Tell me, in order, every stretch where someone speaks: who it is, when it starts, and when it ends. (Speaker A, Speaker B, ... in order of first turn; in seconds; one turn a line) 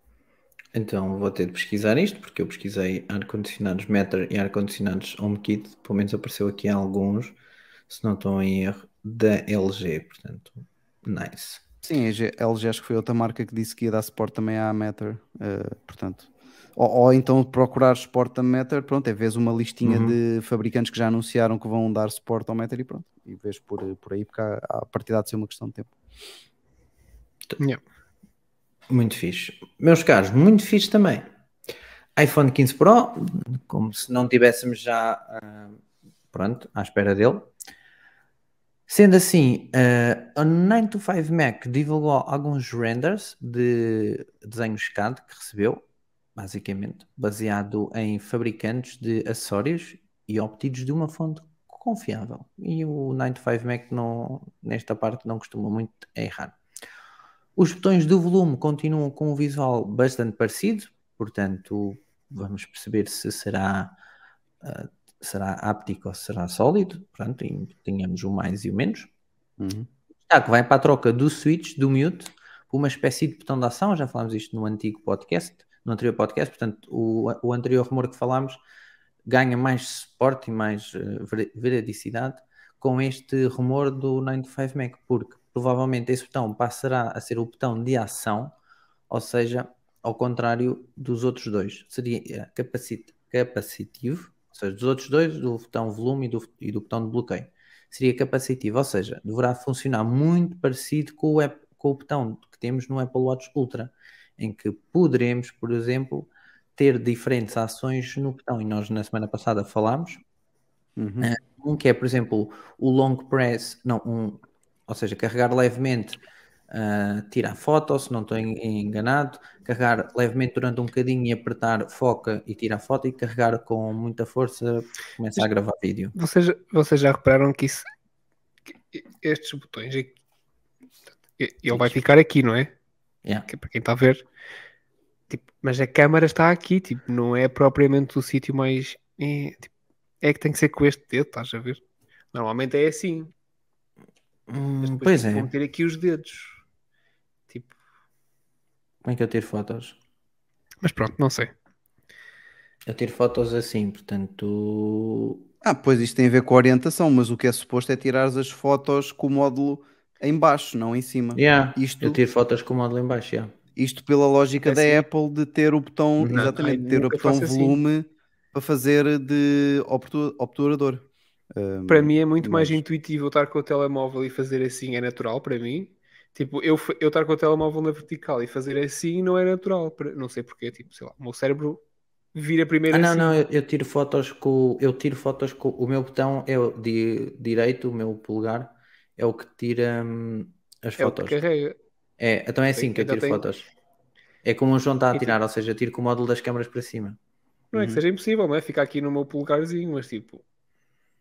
Speaker A: 0.7-7.3
Speaker A: 7.9-11.6
Speaker B: 11.8-25.9
Speaker A: 19.8-20.2
Speaker A: 28.9-31.2
Speaker A: 32.1-35.8
Speaker A: 36.3-37.5
Speaker A: 38.9-45.8
Speaker A: 46.4-56.5
Speaker A: 57.5-64.0
Speaker A: 64.6-69.1
Speaker B: 69.6-69.9
Speaker A: 70.3-78.6
Speaker A: 79.2-88.5
Speaker A: 89.1-110.2
Speaker B: 111.0-111.3
Speaker A: 111.2-116.2
Speaker A: 116.7-126.1
Speaker C: 126.1-127.9
Speaker C: 128.9-130.1
Speaker C: 131.4-132.7
Speaker A: 131.7-132.0
Speaker C: 133.5-134.2
Speaker C: 135.3-139.7
Speaker C: 140.2-141.8
Speaker C: 142.3-143.3
Speaker A: 144.5-145.5
Speaker C: 144.8-146.6
Speaker C: 147.5-147.8
Speaker A: 149.0-150.0
Speaker C: 150.8-151.5
Speaker A: 152.8-155.4
Speaker B: 155.6-162.2
Speaker A: 161.3-163.5
Speaker B: 163.8-172.8
Speaker C: 164.6-165.0
Speaker A: 166.2-166.5
Speaker C: 166.3-167.8
Speaker C: 171.9-181.8
Speaker C: 182.3-183.3
Speaker A: 182.9-191.4
Speaker C: 191.0-191.8
Speaker A: 192.2-193.7
Speaker C: 192.7-193.4
Speaker A: 194.4-197.2
Speaker C: 195.1-195.4
Speaker C: 197.7-200.4
Speaker B: 197.7-198.0